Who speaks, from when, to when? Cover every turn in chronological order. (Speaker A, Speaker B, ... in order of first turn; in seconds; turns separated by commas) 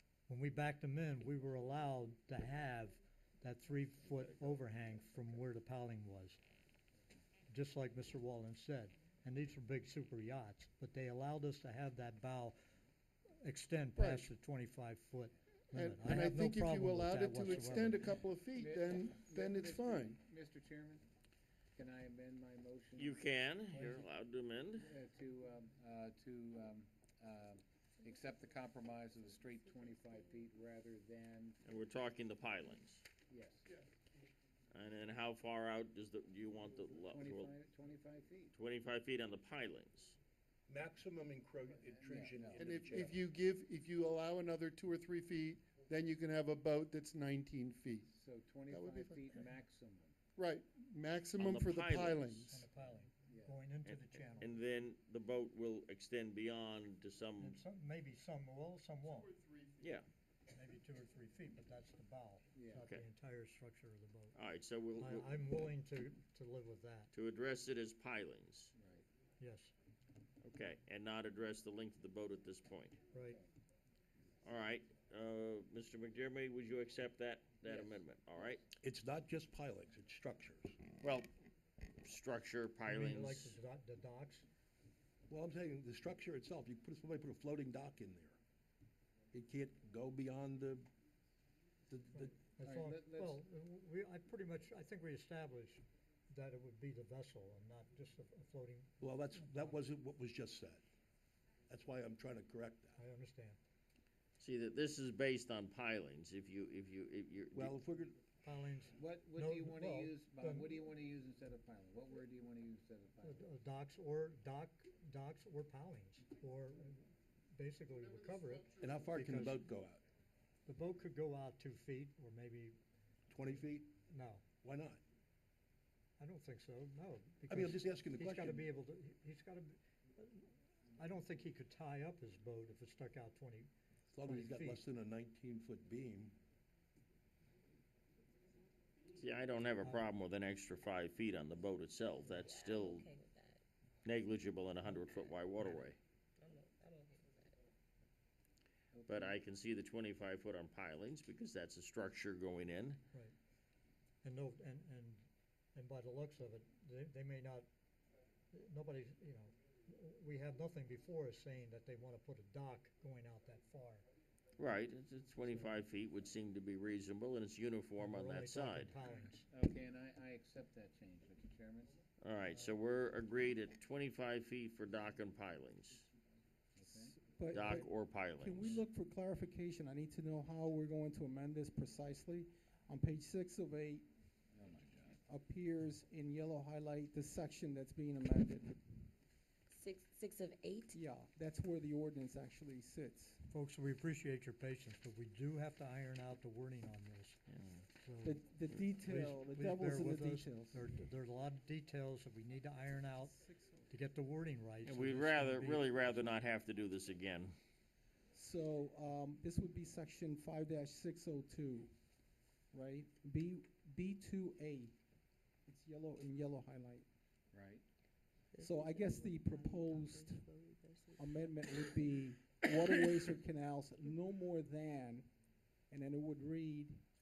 Speaker A: 0.3-6.4, Speaker B: 4.1-4.6, Speaker A: 7.5-12.6, Speaker A: 13.4-18.2, Speaker C: 14.0-14.3, Speaker C: 15.7-20.2, Speaker D: 18.5-21.1, Speaker D: 21.7-24.1, Speaker B: 23.0-24.9, Speaker D: 24.8-31.6, Speaker B: 31.6-33.0, Speaker D: 33.3-33.7, Speaker B: 34.7-37.5, Speaker D: 37.0-38.5, Speaker B: 38.5-40.2, Speaker E: 40.7-43.2, Speaker D: 41.9-43.0, Speaker C: 42.5-48.1, Speaker D: 48.1-50.1, Speaker C: 48.7-49.4, Speaker C: 50.4-52.7, Speaker B: 51.4-52.4, Speaker A: 52.4-54.5, Speaker D: 53.2-53.6, Speaker B: 53.8-57.6, Speaker A: 57.4-59.4, Speaker C: 59.3-59.6, Speaker B: 59.8-60.1, Speaker A: 60.5-64.4, Speaker D: 62.5-62.9, Speaker B: 64.3-65.3, Speaker A: 65.0-67.1, Speaker B: 67.1-68.7, Speaker D: 68.8-69.0, Speaker A: 69.4-69.7, Speaker B: 70.4-73.0, Speaker A: 73.1-73.4, Speaker B: 74.4-78.6, Speaker D: 77.6-78.0, Speaker E: 78.8-80.8, Speaker B: 81.0-81.3, Speaker B: 82.0-83.5, Speaker A: 82.9-84.5, Speaker E: 85.3-88.4, Speaker E: 89.3-90.9, Speaker E: 91.9-92.3, Speaker A: 92.4-99.8, Speaker D: 92.6-93.4, Speaker E: 99.0-100.8, Speaker E: 101.7-103.0, Speaker A: 103.0-103.6, Speaker B: 104.4-107.8, Speaker E: 107.5-108.2, Speaker A: 108.4-110.7, Speaker D: 108.9-113.5, Speaker A: 113.2-119.6, Speaker E: 118.8-120.0, Speaker A: 120.7-122.8, Speaker E: 123.3-124.0, Speaker A: 124.1-124.4, Speaker E: 124.6-125.0, Speaker A: 126.2-133.7, Speaker E: 127.5-128.7, Speaker E: 134.1-136.4, Speaker A: 134.2-134.8, Speaker B: 139.2-143.1, Speaker F: 142.4-143.6, Speaker B: 144.0-146.0, Speaker F: 146.4-147.6, Speaker D: 148.9-149.4, Speaker B: 149.1-153.0, Speaker A: 154.2-157.7, Speaker A: 158.5-164.1, Speaker B: 164.6-169.0, Speaker A: 165.4-165.8, Speaker A: 168.0-169.5, Speaker D: 169.1-172.0, Speaker B: 172.2-176.1, Speaker D: 176.8-177.2, Speaker G: 176.9-184.1, Speaker B: 177.5-178.8, Speaker D: 184.5-185.2, Speaker G: 185.3-189.1, Speaker F: 189.7-191.0, Speaker G: 190.9-193.5, Speaker A: 193.5-197.4, Speaker A: 198.0-198.4, Speaker G: 198.2-200.9, Speaker A: 199.0-203.3, Speaker G: 203.1-204.0, Speaker A: 203.9-206.2, Speaker B: 204.8-207.5, Speaker G: 208.3-211.9, Speaker G: 212.7-214.9, Speaker G: 215.7-217.1, Speaker D: 217.5-217.8, Speaker F: 218.5-221.8, Speaker G: 218.6-220.5, Speaker G: 221.2-225.3, Speaker G: 225.9-227.0